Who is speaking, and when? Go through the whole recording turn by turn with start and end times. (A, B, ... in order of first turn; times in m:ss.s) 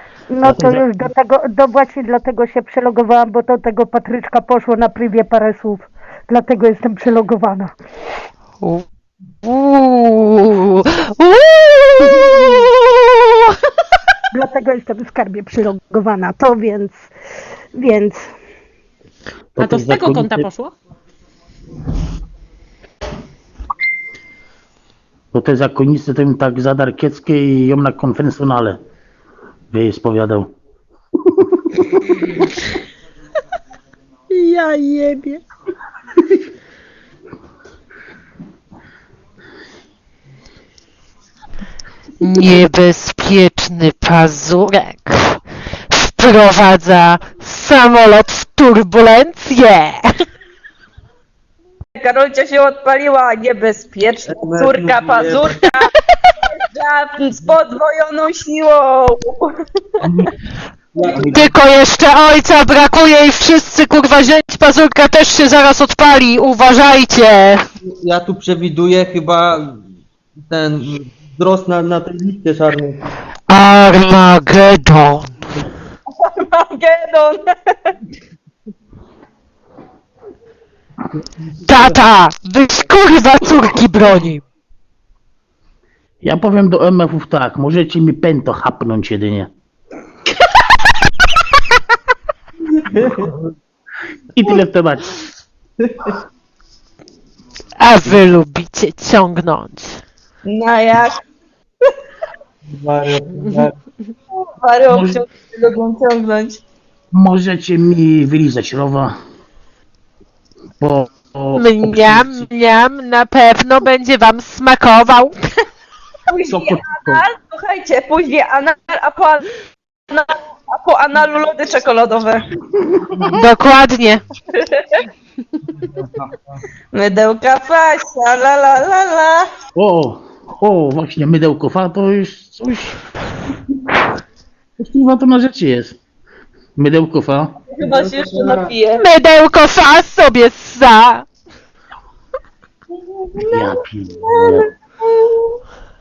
0:00.3-0:07.7 A
0:00.4-0:00.8 B
0:09.4-0:13.5 C
0:14.3-0:17.1 A
0:17.8-0:18.3 A
0:19.6-0:20.5 B
0:19.6-0:20.7 C
0:25.3-0:28.8 B
0:29.7-0:30.5 B
0:34.3-0:35.4 A
0:42.2-0:45.4 C
0:45.9-0:50.1 C
0:52.0-0:55.9 D
0:54.3-0:55.6 E
0:56.4-0:59.5 D
1:00.0-1:00.3 B
1:01.0-1:01.5 E
1:01.0-1:01.3 D
1:01.3-1:07.6 C
1:07.8-1:09.8 E
1:10.5-1:13.1 E
1:13.5-1:15.3 C
1:16.1-1:17.5 D
1:21.6-1:24.4 C
1:26.2-1:29.5 B
1:32.9-1:33.3 E
1:34.3-1:35.2 B
1:37.8-1:40.0 C
1:40.4-1:41.2 D
1:42.7-1:43.7 E
1:44.4-1:46.6 D
1:44.9-1:45.2 B
1:47.1-1:49.2 B
1:50.8-1:52.5 B
1:51.6-1:55.4 C
1:56.3-1:59.5 D
1:56.5-1:57.2 B
2:00.1-2:02.4 D
2:03.3-2:04.2 C
2:04.5-2:05.0 D
2:06.9-2:09.5 D
2:09.8-2:13.0 B
2:14.8-2:16.0 B
2:16.8-2:17.6 B
2:17.7-2:19.0 D
2:17.9-2:18.6 E
2:19.0-2:21.3 C
2:23.4-2:24.7 B
2:24.2-2:25.5 D